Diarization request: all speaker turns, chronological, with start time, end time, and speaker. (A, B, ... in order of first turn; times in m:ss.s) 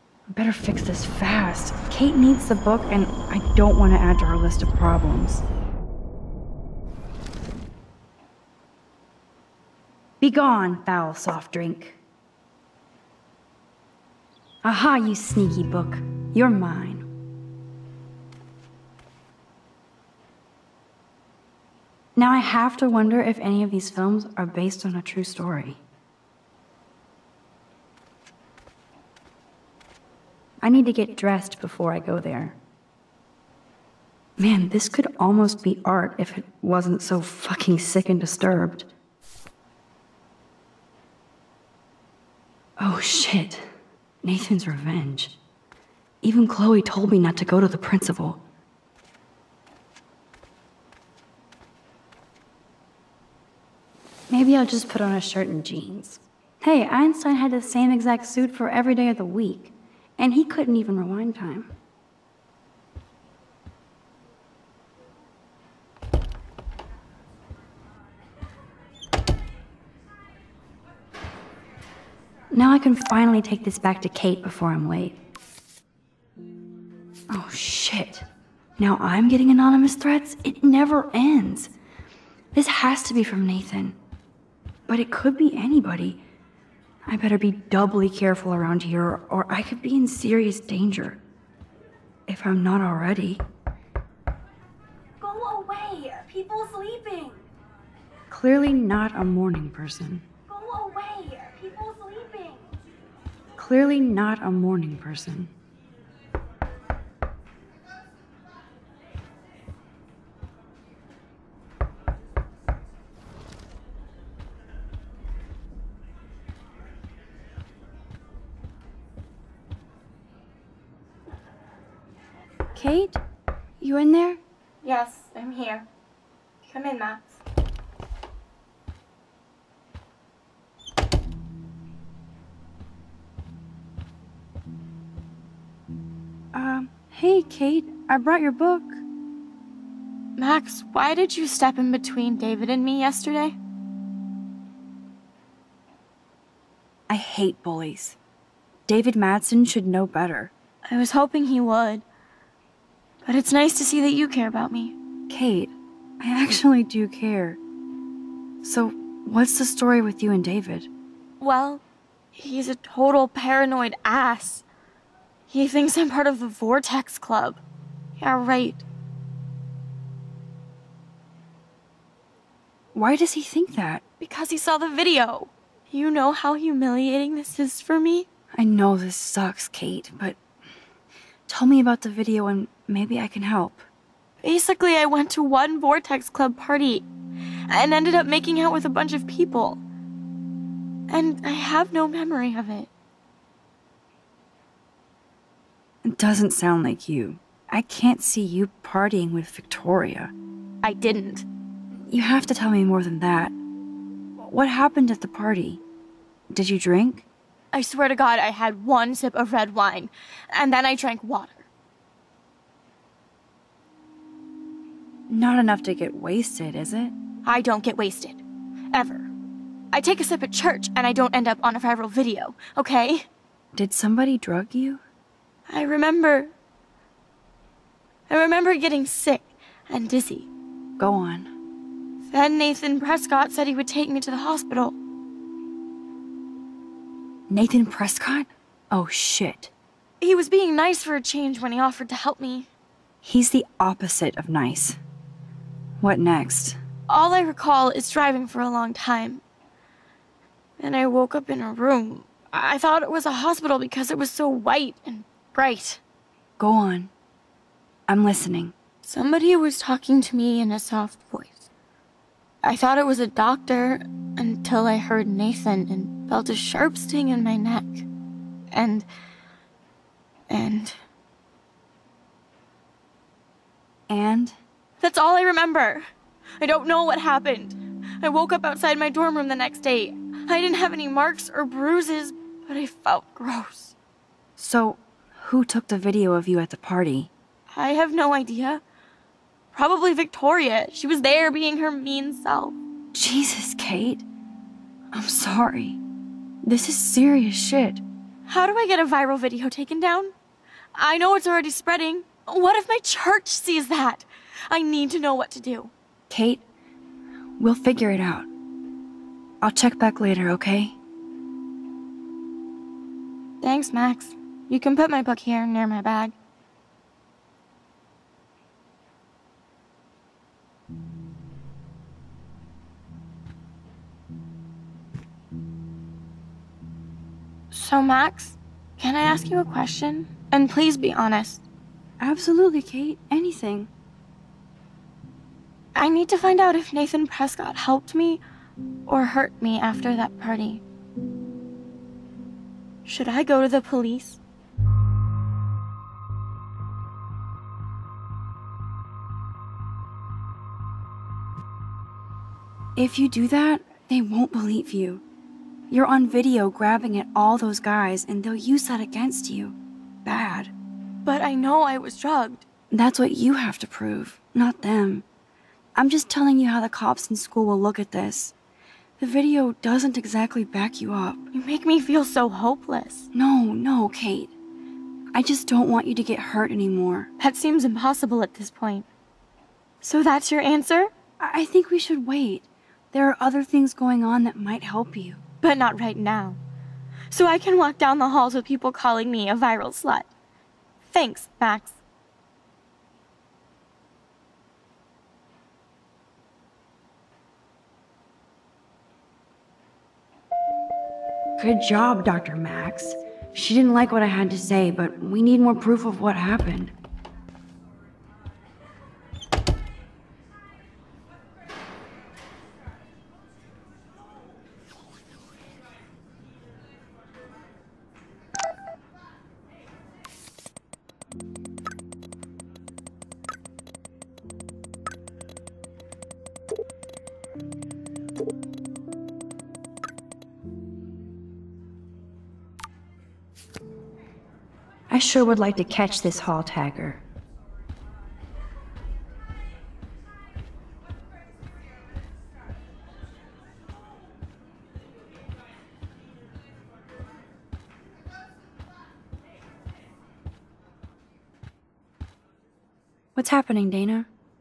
0:00.3-0:05.4 A
0:10.2-0:12.0 A
0:14.6-0:17.1 A
0:22.2-0:25.8 A
0:30.6-0:32.6 A
0:34.4-0:38.9 A
0:42.8-0:43.7 A
0:44.2-0:45.4 A
0:46.2-0:48.4 A
0:54.3-1:01.7 A
1:12.5-1:15.2 A
1:17.3-1:18.3 A
1:18.8-1:21.7 A
1:22.6-1:24.0 A
1:24.9-1:26.2 A
1:27.1-1:31.2 A
1:32.3-1:33.4 A
1:35.2-1:37.4 A
1:38.3-1:42.6 A
1:43.6-1:45.5 A
2:02.8-2:03.2 A
2:03.8-2:04.4 A
2:04.8-2:05.9 B
2:06.7-2:07.4 B
2:16.5-2:19.0 A
2:20.4-2:23.6 B
2:27.1-2:28.2 A
2:28.9-2:30.5 A
2:30.9-2:32.0 B
2:33.2-2:34.9 B
2:35.3-2:37.6 A
2:38.6-2:40.9 A
2:41.4-2:41.8 B
2:42.4-2:44.6 B
2:45.5-2:47.6 B
2:48.2-2:48.8 B
2:53.0-2:54.0 A
2:54.2-2:58.3 B
2:58.6-3:00.4 A
3:01.5-3:03.9 A
3:04.4-3:07.1 B
3:07.7-3:09.8 B
3:11.1-3:12.9 B
3:16.0-3:20.3 A
3:20.8-3:21.4 B
3:22.1-3:23.6 A
3:24.4-3:25.8 A
3:26.5-3:27.2 A
3:27.7-3:31.7 B
3:35.3-3:37.1 A
3:37.4-3:38.4 B
3:38.9-3:39.3 B
3:39.9-3:43.3 B
3:43.8-3:45.0 A
3:45.7-3:46.5 B
3:48.3-3:50.5 B
3:51.0-3:51.5 A
3:52.3-3:54.9 B
3:57.5-3:59.7 A
4:00.2-4:02.7 B
4:03.2-4:05.0 A
4:06.0-4:06.8 A
4:07.1-4:09.4 B
4:10.8-4:16.0 B
4:16.6-4:17.1 A
4:18.1-4:18.7 A
4:19.0-4:21.7 B
4:22.6-4:28.1 B
4:28.7-4:29.1 B
4:30.5-4:31.0 B
4:34.1-4:34.6 A
4:35.0-4:36.1 B
4:36.6-4:43.9 B
4:44.6-4:47.3 A
4:47.7-4:48.8 B
4:49.7-4:52.8 B
4:53.1-4:54.2 A
4:55.1-4:56.0 A
4:56.6-4:58.0 A
4:58.5-5:00.3 B
5:01.0-5:05.9 B
5:06.3-5:06.6 A
5:07.6-5:08.5 A
5:09.6-5:11.0 A
5:13.6-5:16.3 B
5:27.7-5:31.6 B
5:32.2-5:33.9 A
5:36.0-5:38.4 B
5:39.1-5:40.8 B
5:43.0-5:44.4 B
5:53.0-5:55.2 A
5:55.9-6:00.7 A
6:01.2-6:02.6 B
6:02.9-6:05.2 A
6:06.0-6:08.5 A
6:09.2-6:11.4 A
6:11.5-6:13.3 B
6:13.3-6:14.5 A
6:15.4-6:17.3 A
6:17.4-6:19.1 B
6:20.0-6:21.1 B
6:21.4-6:25.4 A
6:25.6-6:26.6 B
6:27.3-6:30.3 B
6:31.1-6:32.0 B
6:41.6-6:46.9 A
7:15.1-7:17.2 A
7:33.4-7:34.3 A